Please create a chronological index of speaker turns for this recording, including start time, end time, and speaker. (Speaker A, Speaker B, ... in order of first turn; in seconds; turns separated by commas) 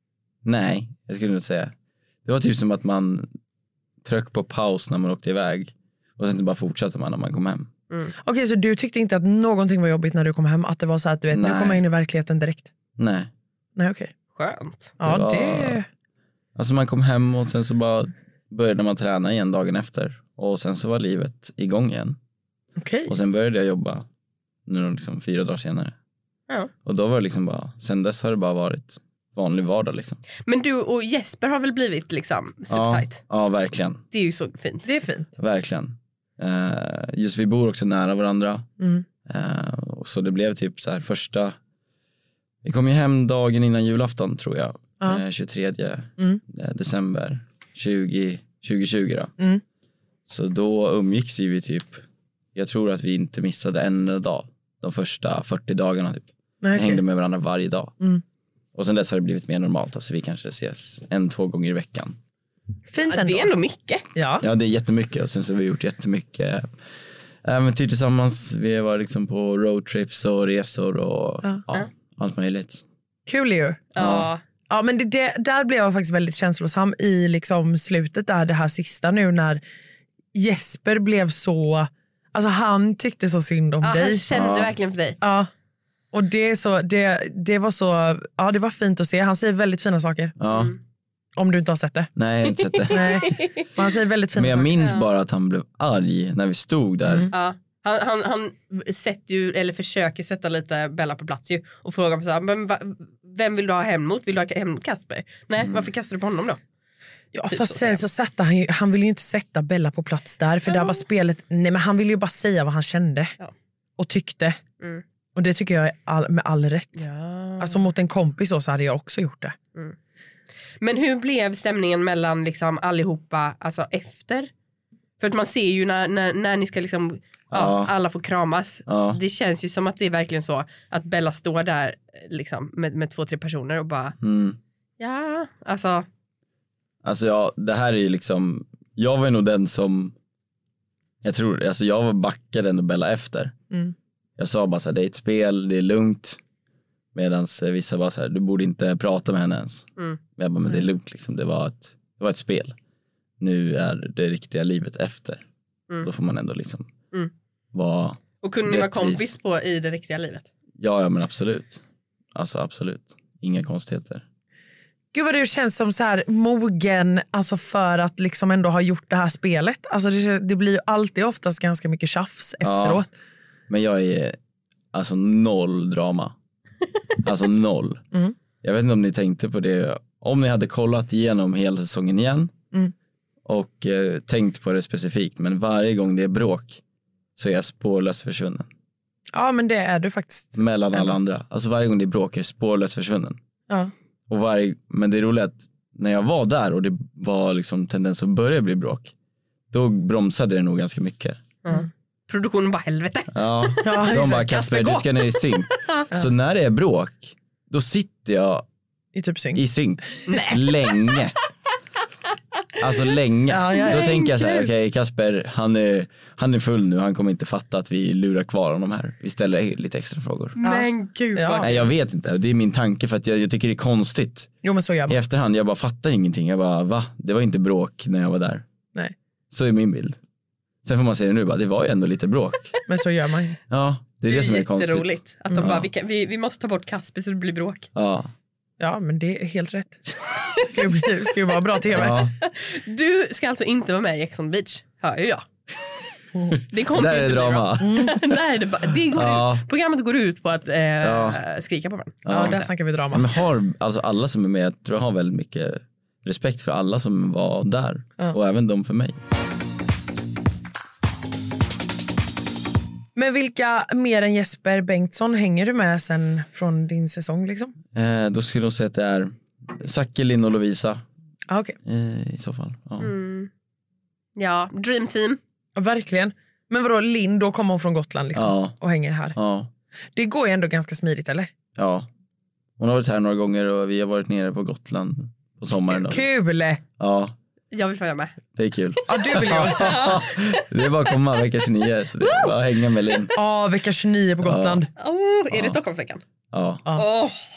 Speaker A: 0.4-1.7, Speaker A: 2.2-3.3, Speaker A: 4.0-7.7, Speaker B: 8.2-12.7, Speaker A: 11.3-11.8, Speaker A: 13.0-13.3, Speaker B: 13.8-14.1, Speaker C: 14.3-14.9, Speaker B: 15.0-15.8, Speaker A: 15.0-15.8, Speaker A: 16.6-22.2, Speaker B: 22.8-23.1, Speaker A: 23.1-24.1, Speaker A: 24.7-25.9, Speaker A: 26.8-30.2, Speaker C: 30.4-33.2, Speaker A: 32.7-34.0, Speaker C: 34.1-34.9, Speaker B: 34.8-35.3, Speaker A: 35.4-38.7, Speaker B: 38.8-39.0, Speaker A: 39.2-41.5, Speaker A: 42.6-49.3, Speaker A: 50.3-52.0, Speaker A: 52.5-57.9, Speaker B: 56.6-57.0, Speaker A: 58.7-62.2, Speaker B: 62.9-63.5, Speaker C: 63.0-64.0, Speaker B: 64.1-64.4, Speaker A: 64.4-66.7, Speaker A: 67.4-72.8, Speaker B: 73.3-73.9, Speaker C: 73.9-74.4, Speaker A: 74.0-74.3, Speaker B: 74.7-79.6, Speaker B: 80.3-84.2, Speaker C: 83.8-85.2, Speaker A: 84.3-84.7, Speaker B: 85.2-85.5, Speaker B: 86.1-90.3, Speaker A: 90.4-90.7, Speaker C: 90.5-90.8, Speaker B: 91.4-92.1, Speaker A: 92.2-93.3, Speaker C: 92.7-93.7, Speaker B: 92.9-94.7, Speaker A: 94.3-97.3, Speaker C: 94.8-95.0, Speaker B: 97.0-97.3, Speaker C: 97.3-106.6, Speaker A: 105.6-105.9, Speaker B: 107.3-113.3, Speaker C: 107.5-108.0, Speaker C: 110.7-111.0, Speaker B: 114.0-114.6, Speaker B: 115.3-117.1, Speaker C: 117.0-117.8, Speaker B: 117.6-119.5, Speaker C: 120.8-124.5, Speaker C: 125.2-134.2, Speaker A: 127.5-127.9, Speaker A: 128.9-129.2, Speaker A: 134.2-134.6, Speaker C: 135.0-136.1, Speaker A: 137.0-140.1, Speaker A: 141.2-143.5, Speaker A: 144.4-146.4, Speaker A: 147.1-149.8, Speaker A: 150.4-152.8, Speaker A: 153.4-155.4, Speaker A: 156.0-156.9, Speaker A: 157.7-159.3, Speaker C: 158.4-160.5, Speaker A: 160.8-161.8, Speaker A: 162.3-164.2, Speaker B: 165.1-173.1, Speaker A: 172.6-173.0, Speaker A: 173.7-174.4, Speaker A: 174.9-176.3, Speaker A: 177.2-178.0, Speaker A: 178.6-182.5, Speaker A: 183.4-186.8, Speaker A: 187.3-188.7, Speaker B: 189.3-191.1, Speaker A: 190.5-193.4, Speaker A: 194.3-199.1, Speaker A: 199.7-201.4, Speaker C: 201.6-206.0, Speaker A: 203.3-208.7, Speaker B: 203.8-204.4, Speaker B: 209.1-209.6, Speaker A: 209.5-211.3, Speaker C: 210.3-210.7, Speaker A: 212.8-220.6, Speaker B: 213.5-214.5, Speaker C: 213.8-214.2, Speaker C: 220.6-221.8, Speaker B: 220.6-221.7, Speaker A: 221.6-224.5, Speaker B: 224.6-225.2, Speaker A: 225.1-228.6, Speaker A: 229.5-230.2, Speaker A: 230.8-232.7, Speaker B: 232.9-233.6, Speaker A: 233.7-235.9, Speaker C: 234.3-237.9, Speaker A: 237.9-238.3, Speaker B: 238.8-240.0, Speaker B: 240.6-242.2, Speaker A: 241.9-242.3, Speaker C: 242.4-245.4, Speaker A: 246.5-248.3, Speaker C: 246.7-252.6, Speaker B: 247.8-248.1, Speaker A: 249.1-249.6, Speaker A: 251.0-251.4, Speaker A: 252.2-259.2, Speaker B: 252.3-253.3, Speaker B: 263.1-267.7, Speaker A: 267.9-271.0, Speaker B: 271.5-271.8, Speaker A: 271.8-273.1, Speaker C: 273.0-273.5, Speaker C: 274.4-275.4, Speaker B: 275.8-279.4, Speaker A: 278.3-278.8, Speaker A: 279.3-279.7, Speaker B: 280.1-281.5, Speaker A: 281.8-282.1, Speaker A: 282.8-286.3, Speaker B: 285.9-286.8, Speaker A: 287.0-287.3, Speaker C: 287.7-288.4, Speaker A: 288.6-293.3, Speaker B: 289.1-290.1, Speaker C: 289.3-291.1, Speaker C: 292.2-293.3, Speaker B: 293.3-294.9, Speaker A: 294.4-294.8, Speaker C: 294.9-296.2, Speaker A: 295.5-295.8, Speaker A: 296.5-296.8, Speaker C: 296.9-297.4